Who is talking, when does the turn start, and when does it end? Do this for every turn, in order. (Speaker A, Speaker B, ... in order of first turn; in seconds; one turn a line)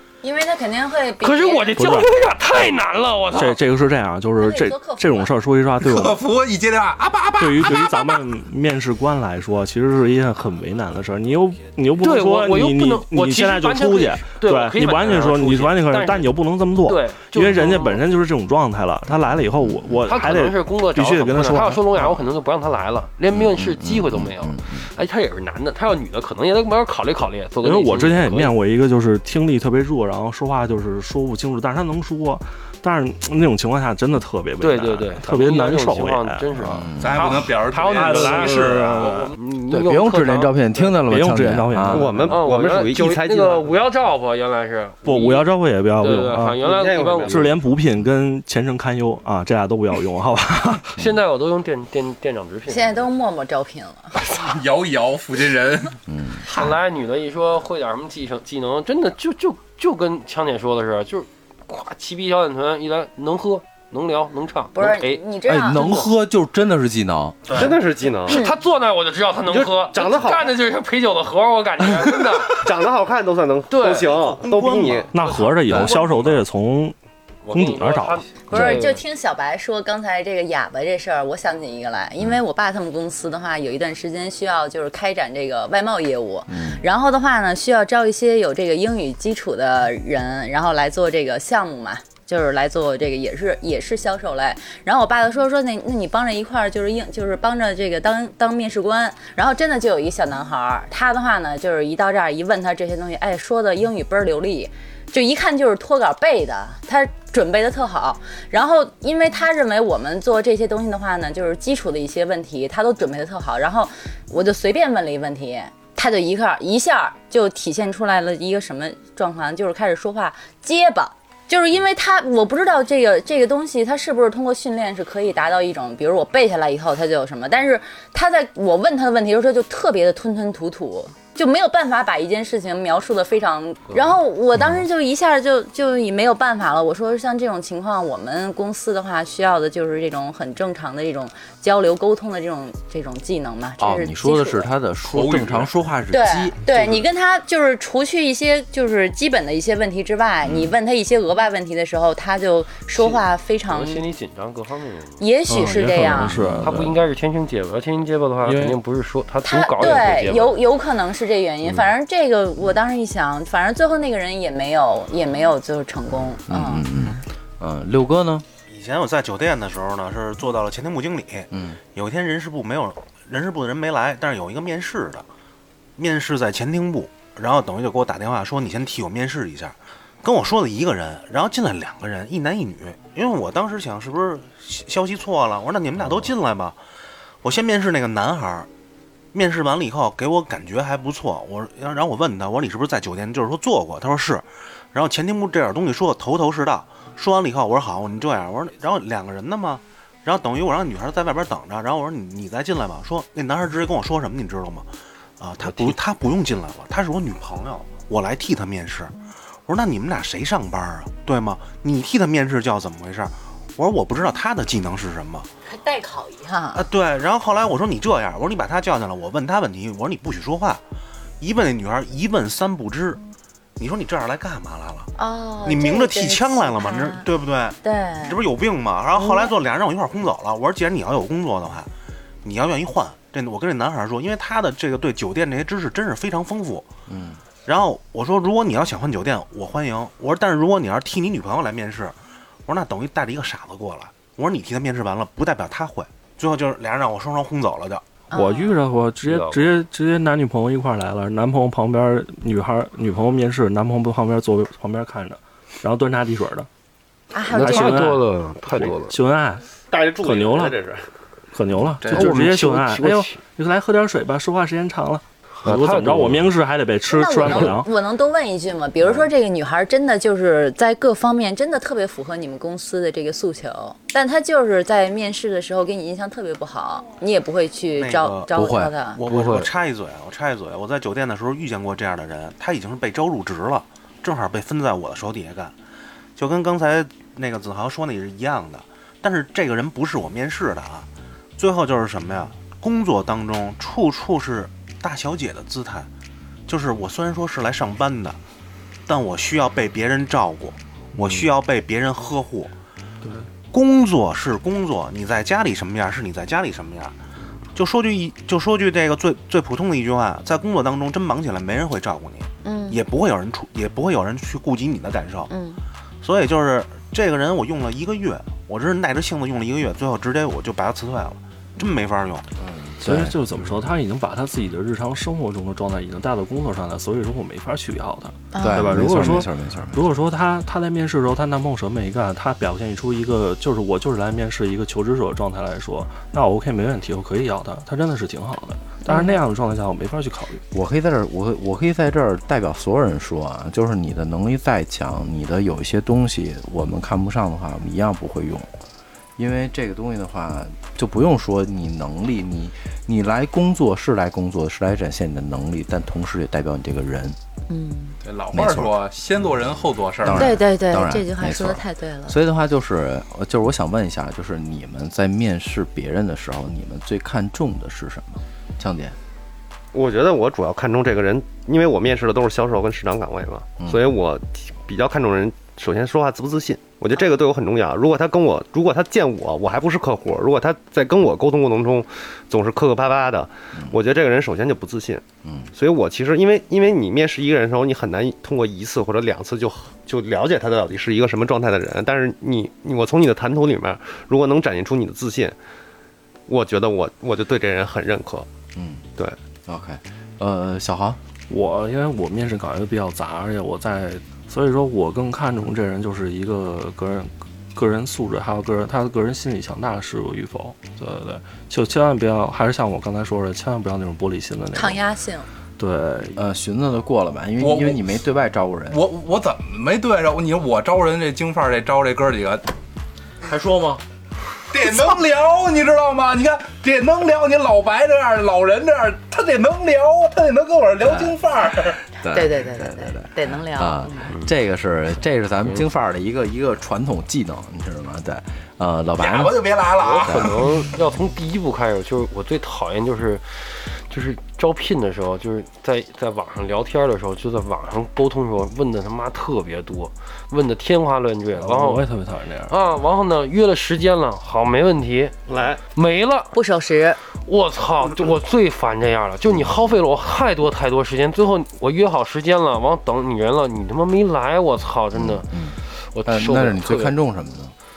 Speaker A: 0.2-1.9
Speaker B: 1.2-3.6
Speaker C: 1.8-2.1
Speaker C: 3.3-6.2
Speaker A: 4.4-5.3
Speaker D: 5.8-8.2
Speaker C: 7.4-22.2
Speaker B: 12.0-18.0
Speaker E: 19.6-20.0
Speaker B: 20.1-28.6
Speaker E: 23.3-24.9
Speaker C: 27.6-36.8
Speaker B: 34.6-40.9
Speaker E: 36.7-37.2
Speaker D: 37.0-39.3
Speaker C: 37.8-39.3
Speaker E: 39.7-42.3
Speaker C: 41.0-42.4
Speaker F: 41.9-43.7
Speaker B: 42.3-47.5
Speaker C: 45.0-46.6
Speaker F: 46.6-47.7
Speaker C: 47.3-51.0
Speaker B: 51.0-53.1
Speaker A: 52.7-54.2
Speaker D: 54.2-56.0
Speaker E: 56.1-56.5
Speaker B: 56.5-65.2
Speaker A: 64.8-66.1
Speaker E: 65.4-67.6
Speaker F: 67.5-68.4
Speaker B: 68.3-72.6
Speaker A: 68.3-68.5
Speaker F: 69.5-70.6
Speaker F: 72.5-75.2
Speaker B: 73.7-74.2
Speaker G: 74.5-75.1
Speaker C: 75.1-77.0
Speaker B: 75.2-75.5
Speaker E: 75.7-76.0
Speaker B: 77.4-79.0
Speaker C: 77.5-78.3
Speaker A: 78.5-144.7
Speaker E: 86.5-86.8
Speaker E: 143.8-147.0
Speaker D: 145.1-145.7
Speaker A: 146.1-154.1
Speaker E: 150.4-150.8
Speaker B: 152.9-155.2
Speaker A: 155.2-156.4
Speaker C: 155.5-156.9
Speaker E: 156.2-156.9
Speaker B: 156.6-160.6
Speaker C: 158.4-158.8
Speaker A: 159.4-166.8
Speaker E: 166.5-168.4
Speaker G: 168.7-175.3
Speaker E: 171.5-171.8
Speaker G: 176.0-186.8
Speaker G: 187.4-188.7
Speaker G: 189.3-215.5
Speaker A: 215.7-216.9
Speaker G: 216.8-220.8
Speaker G: 221.4-223.2
Speaker G: 223.8-225.1
Speaker A: 225.2-227.2
Speaker G: 225.6-231.9
Speaker A: 227.8-228.4
Speaker A: 229.2-229.5
Speaker G: 232.4-236.9
Speaker E: 237.1-237.4
Speaker G: 237.7-248.1
Speaker A: 248.3-248.8
Speaker C: 248.3-256.7
Speaker B: 249.3-249.8
Speaker A: 257.3-258.1
Speaker C: 257.5-259.7
Speaker B: 257.5-259.2
Speaker F: 259.9-261.1
Speaker C: 260.2-260.8
Speaker C: 261.5-267.9
Speaker B: 262.1-263.4
Speaker B: 265.6-266.5
Speaker A: 267.1-279.2
Speaker G: 278.0-278.5
Speaker E: 278.5-278.9
Speaker G: 279.1-285.8
Speaker B: 279.2-279.7
Speaker G: 286.4-296.1
Speaker G: 296.7-298.4
Speaker G: 299.1-302.7
Speaker C: 301.2-301.5
Speaker G: 303.7-307.2
Speaker G: 307.8-315.5
Speaker A: 312.6-313.0
Speaker A: 315.5-315.8
Speaker G: 316.2-322.5
Speaker E: 322.6-323.4
Speaker C: 323.0-340.6
Speaker A: 328.5-329.4
Speaker E: 328.6-330.1
Speaker A: 339.1-339.4
Speaker E: 340.7-348.7
Speaker E: 349.4-357.4
Speaker A: 357.7-358.2
Speaker D: 358.2-360.6
Speaker E: 358.5-358.9
Speaker E: 360.2-369.2
Speaker A: 360.3-362.4
Speaker F: 369.9-395.6
Speaker E: 385.4-385.7
Speaker F: 396.5-398.5
Speaker E: 398.8-399.1
Speaker E: 399.7-401.2
Speaker C: 401.5-415.0
Speaker A: 414.7-415.5
Speaker C: 415.8-416.4
Speaker E: 416.4-419.0
Speaker D: 417.6-418.1
Speaker D: 418.9-422.6
Speaker E: 423.4-424.0
Speaker D: 424.7-432.0
Speaker E: 431.0-431.4
Speaker E: 432.2-439.7
Speaker A: 432.3-434.3
Speaker D: 439.2-440.5
Speaker B: 440.0-452.1
Speaker E: 440.2-440.7
Speaker C: 451.6-452.8
Speaker B: 452.7-455.4
Speaker F: 455.5-455.8
Speaker B: 455.9-456.6
Speaker A: 456.5-457.2
Speaker B: 457.4-467.2
Speaker E: 465.1-467.7